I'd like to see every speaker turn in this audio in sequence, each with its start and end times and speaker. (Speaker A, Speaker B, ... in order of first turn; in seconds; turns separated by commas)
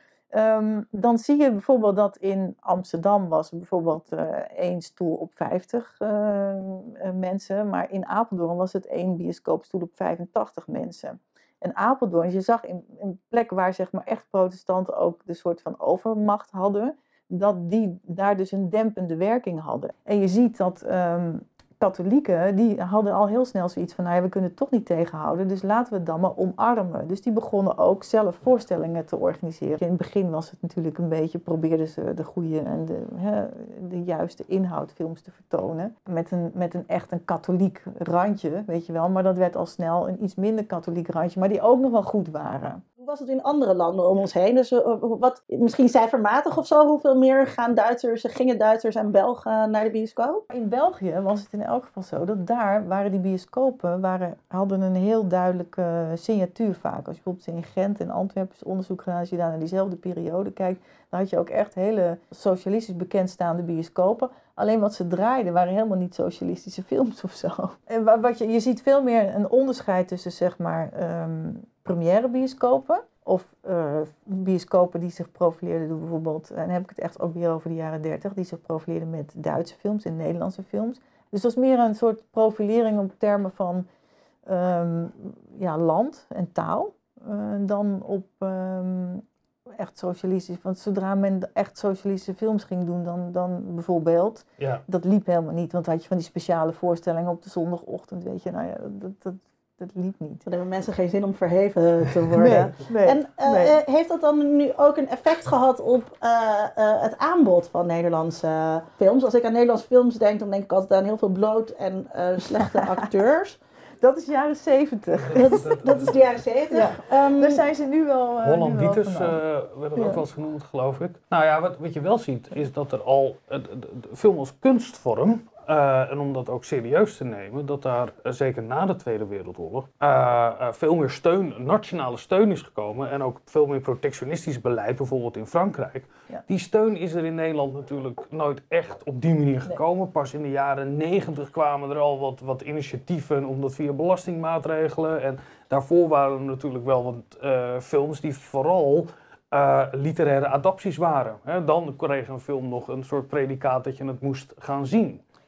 Speaker A: 0.3-42.8, Speaker B: 43.0-50.4, Speaker A: 50.5-83.9, Speaker A: 84.5-89.2, Speaker A: 89.8-100.5, Speaker B: 100.5-113.6, Speaker A: 102.3-103.8, Speaker A: 112.6-113.0, Speaker A: 114.0-116.1, Speaker C: 115.2-116.2, Speaker B: 115.3-117.6, Speaker A: 116.7-119.4, Speaker C: 118.4-155.2, Speaker A: 120.0-120.2